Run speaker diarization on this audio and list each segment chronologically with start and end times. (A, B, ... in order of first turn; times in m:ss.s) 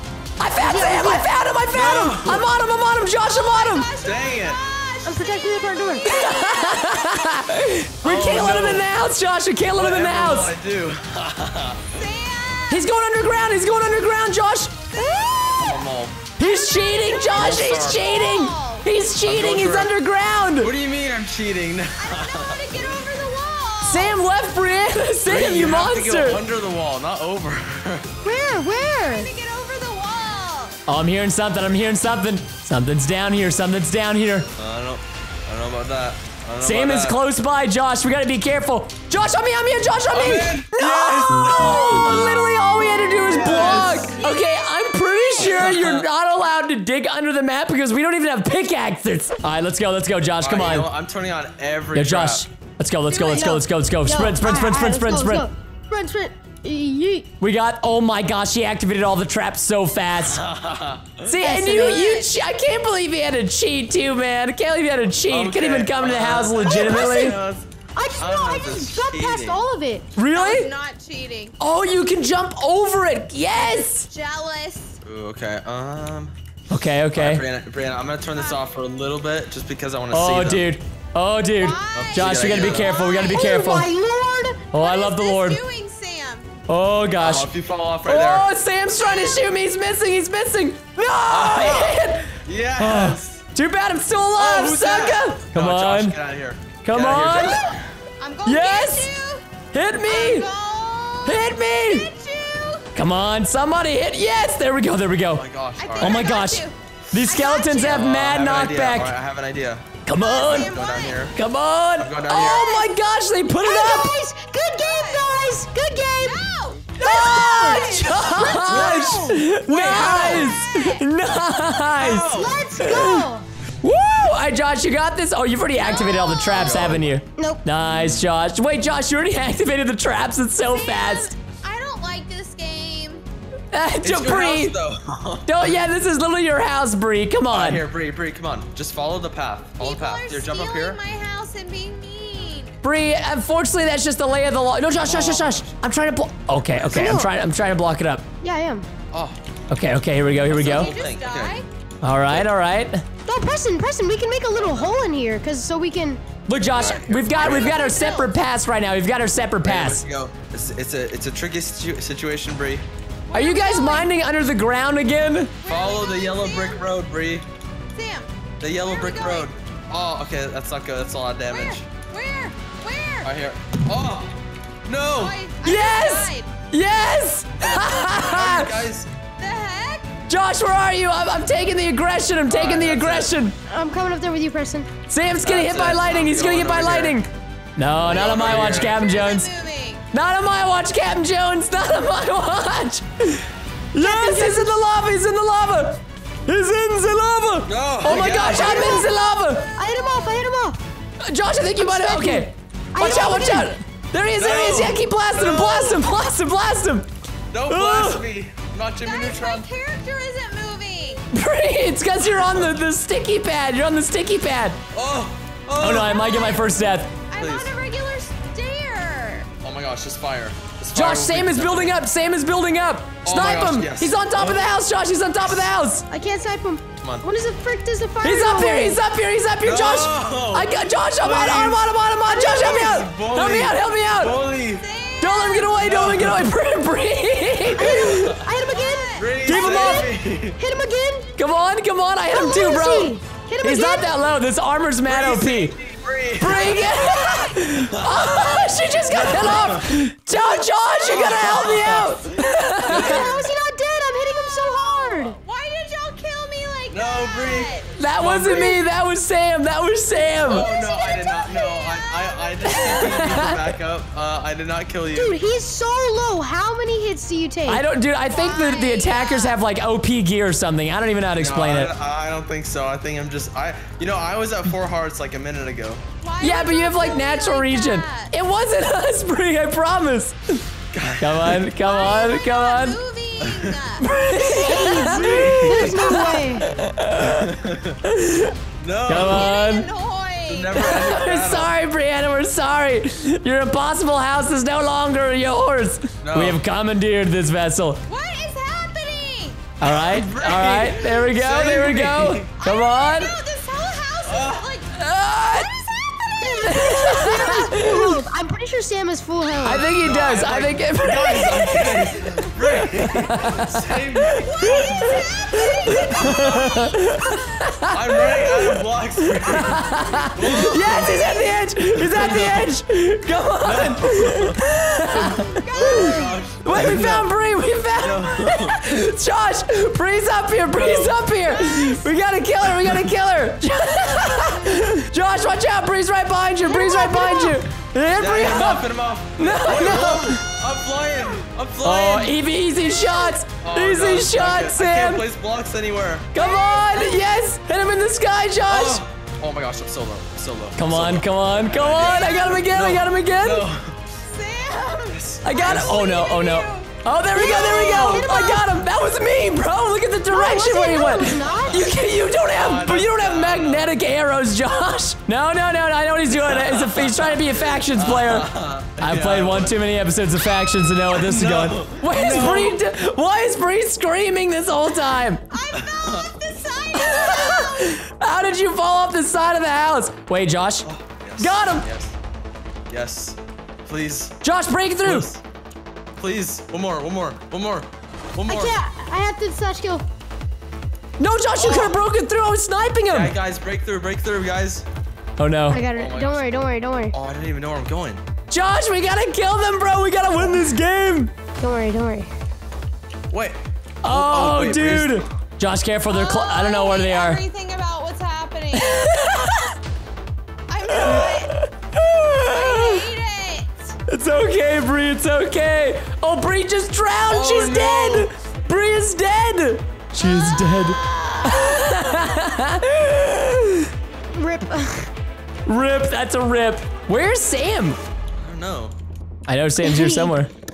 0:00.4-0:03.9 A
0:00.5-0:01.3 B
0:01.7-0:02.5 C
0:03.3-0:07.1 D
0:04.0-0:04.6 C
0:05.1-0:06.0 B
0:06.0-0:10.5 A
0:08.0-0:08.9 C
0:09.7-0:12.0 C
0:11.9-0:12.9 D
0:12.7-0:14.8 A
0:14.9-0:15.8 D
0:15.5-0:16.2 C
0:16.4-0:20.7 A
0:16.4-0:18.9 D
0:17.4-0:18.1 C
0:19.2-0:19.9 C
0:20.6-0:22.8 C
0:22.0-0:24.2 D
0:23.8-0:26.4 A
0:25.2-0:28.1 C
0:28.2-0:29.3 B
0:28.7-0:30.8 D
0:30.9-0:34.5 A
0:34.6-0:37.2 C
0:36.6-0:50.9 A
0:40.1-0:42.3 C
0:43.2-0:44.1 C
0:43.5-0:45.6 D
0:45.4-0:46.1 C
0:50.4-0:52.4 C
0:51.9-0:55.5 A
0:53.1-0:53.6 D
0:53.3-0:57.3 B
0:57.4-1:00.4 A
1:00.2-1:01.3 C
1:01.2-1:07.4 A
1:01.4-1:02.3 D
1:05.3-1:09.6 C
1:06.6-1:07.3 B
1:07.9-1:10.1 B
1:10.2-1:10.7 A
1:10.3-1:11.6 D
1:11.6-1:14.1 A
1:13.5-1:15.0 D
1:15.0-1:16.4 C
1:16.7-1:17.4 A
1:17.1-1:20.7 C
1:18.3-1:18.6 D
1:20.1-1:23.9 A
1:21.6-1:23.5 D
1:21.9-1:23.0 C
1:23.1-1:24.7 B
1:24.7-1:25.6 A
1:24.8-1:26.5 D
1:26.7-1:27.5 A
1:27.2-1:28.5 C
1:28.0-1:36.1 A
1:29.0-1:29.4 D
1:31.3-1:33.4 C
1:34.4-1:37.8 C
1:36.8-1:37.6 A
1:38.2-1:39.5 D
1:38.4-1:39.1 A
1:39.7-1:40.5 A
1:40.1-1:42.9 D
1:41.2-1:42.1 A
1:42.9-1:45.4 A
1:45.3-1:46.4 C
1:45.8-1:48.1 D
1:46.0-1:49.1 A
1:47.8-1:51.4 C
1:50.1-1:50.7 A
1:50.2-1:51.2 D
1:51.3-1:54.1 A
1:52.0-1:52.7 C
1:52.3-1:52.9 D
1:53.6-1:56.4 B
1:54.8-1:55.4 D
1:56.2-1:59.0 D
1:57.0-2:00.5 B
1:57.0-2:03.2 A
1:58.4-2:00.5 C
1:59.7-2:01.0 D
2:02.0-2:02.6 C
2:02.3-2:03.5 B
2:03.8-2:11.3 A
2:05.8-2:06.8 D
2:05.9-2:07.2 C
2:07.4-2:07.6 B
2:10.7-2:13.2 D
2:13.7-2:14.8 A
2:14.0-2:15.7 C
2:15.5-2:17.8 A
2:17.5-2:21.0 C
2:19.8-2:22.8 D
2:22.8-2:28.2 A
2:25.0-2:25.7 C
2:26.6-2:27.2 C
2:26.9-2:27.3 B
2:28.4-2:28.9 B
2:29.1-2:29.4 C
2:29.7-2:30.9 A
2:30.3-2:31.6 C
2:30.5-2:31.7 D
2:32.0-2:33.0 A
2:33.2-2:36.2 B
2:36.5-2:40.0 A
2:36.7-2:37.9 C
2:37.2-2:38.4 D
2:39.6-2:42.9 C
2:43.3-2:44.1 D
2:43.3-2:45.5 A
2:45.6-2:46.9 D
2:45.7-2:47.5 C
2:47.9-2:49.6 D
2:48.6-2:51.8 C
2:51.5-2:53.3 D
2:53.2-2:54.4 C
2:54.9-2:55.4 C
2:55.1-2:56.5 D
2:55.6-2:58.7 A
2:57.8-2:59.1 C
2:59.4-3:00.1 D
3:00.3-3:03.5 A
3:02.5-3:03.3 C
3:03.7-3:04.9 B
3:05.1-3:09.5 A
3:05.4-3:07.2 C
3:08.0-3:09.0 C
3:08.1-3:10.0 D
3:10.1-3:19.7 A
3:14.0-3:14.8 B
3:17.7-3:19.1 C
3:18.4-3:19.1 B
3:18.4-3:20.5 D
3:19.8-3:20.8 B
3:21.2-3:27.1 A
3:21.8-3:23.7 B
3:23.0-3:23.6 C
3:24.4-3:26.0 C
3:27.5-3:29.7 C
3:27.7-3:28.2 A
3:29.0-3:31.3 D
3:31.3-3:34.8 A
3:32.2-3:32.7 C
3:34.9-3:36.2 C
3:35.8-3:37.1 A
3:35.9-3:39.5 D
3:37.4-3:37.7 C
3:39.6-3:42.0 C
3:40.9-3:46.1 A
3:43.2-3:44.7 C
3:46.1-3:49.0 B
3:47.0-3:47.2 C
3:48.2-3:54.4 A
3:49.6-3:54.8 C
3:54.7-3:55.8 D
3:55.2-3:58.4 A
3:55.8-3:56.5 C
3:57.8-3:58.4 C
3:57.8-4:01.3 B
3:58.5-3:59.6 D
3:59.2-4:00.6 C
3:59.5-4:00.0 A
4:01.4-4:05.8 A
4:02.3-4:04.2 B
4:05.1-4:07.0 C
4:06.4-4:13.2 A
4:06.5-4:07.4 D
4:07.9-4:08.5 C
4:09.1-4:10.0 C
4:11.0-4:13.5 C
4:12.8-4:15.4 B
4:15.2-4:18.0 D
4:16.9-4:18.8 C
4:18.0-4:20.7 A
4:20.4-4:25.4 C
4:20.6-4:23.1 D
4:23.0-4:23.6 A
4:25.1-4:27.8 B
4:27.6-4:31.9 A
4:28.3-4:29.6 D
4:31.4-4:36.0 C
4:36.2-4:38.3 D
4:36.4-4:40.6 A
4:40.9-4:41.6 C
4:41.2-4:43.0 A
4:41.8-4:44.6 D
4:43.4-4:43.7 C
4:44.0-4:47.5 A
4:44.4-4:46.7 B
4:44.8-4:46.0 C
4:47.2-4:48.0 C
4:48.0-4:48.5 A
4:48.8-4:49.5 C
4:49.1-4:49.9 A
4:49.1-4:50.9 D
4:50.5-4:51.7 C
4:50.8-4:58.0 A
4:56.2-4:56.6 C
4:58.1-4:59.6 D
4:59.8-5:03.4 A
4:59.8-5:02.5 C
5:02.6-5:07.4 D
5:04.2-5:04.7 C
5:04.9-5:05.7 A
5:06.4-5:10.0 B
5:06.7-5:08.2 A
5:09.6-5:13.6 A
5:10.0-5:15.2 C
5:14.5-5:17.4 D
5:15.9-5:18.8 A
5:16.1-5:16.8 C
5:17.9-5:21.4 C
5:19.5-5:38.8 A
5:20.9-5:21.5 D
5:21.9-5:22.7 C
5:23.6-5:27.3 C
5:25.4-5:26.4 D
5:28.0-5:28.8 C
5:30.8-5:32.0 C
5:32.7-5:33.1 C
5:36.7-5:37.6 B
5:38.2-5:42.3 C
5:39.4-5:40.4 A
5:41.8-5:45.2 A
5:43.6-5:46.3 C
5:46.3-5:49.0 A
5:46.4-5:47.4 D
5:48.7-5:54.0 C
5:50.8-5:53.6 A
5:51.9-5:52.7 D
5:54.2-5:56.9 D
5:55.1-5:56.0 C
5:55.4-6:15.4 A
5:57.4-5:58.8 B
6:00.3-6:01.9 B
6:01.8-6:03.9 C
6:06.3-6:09.8 C
6:11.1-6:12.8 C
6:15.5-6:18.0 D
6:17.0-6:20.9 A
6:20.8-6:22.1 C
6:21.4-6:21.9 A
6:22.9-6:24.4 C
6:24.4-6:25.3 A
6:25.0-6:25.4 C
6:26.2-6:28.7 C
6:28.5-6:30.0 B
6:31.2-6:33.3 A
6:31.6-6:32.0 C
6:33.1-6:34.8 C
6:35.4-6:35.8 A
6:35.7-6:37.2 B
6:35.9-6:36.6 C
6:37.1-6:38.2 C
6:38.5-6:41.3 A
6:41.6-6:42.3 B
6:43.3-6:45.2 C
6:44.0-6:47.4 A
6:46.1-6:49.1 D
6:48.8-6:49.8 A
6:50.7-6:51.5 D
6:50.9-6:53.0 A
6:52.5-6:54.0 D
6:54.1-7:03.9 A
6:57.3-6:58.3 C
7:00.2-7:02.0 D
7:04.3-7:05.1 B
7:05.6-7:08.0 A
7:08.4-7:08.9 C
7:09.5-7:10.5 A
7:09.8-7:10.4 B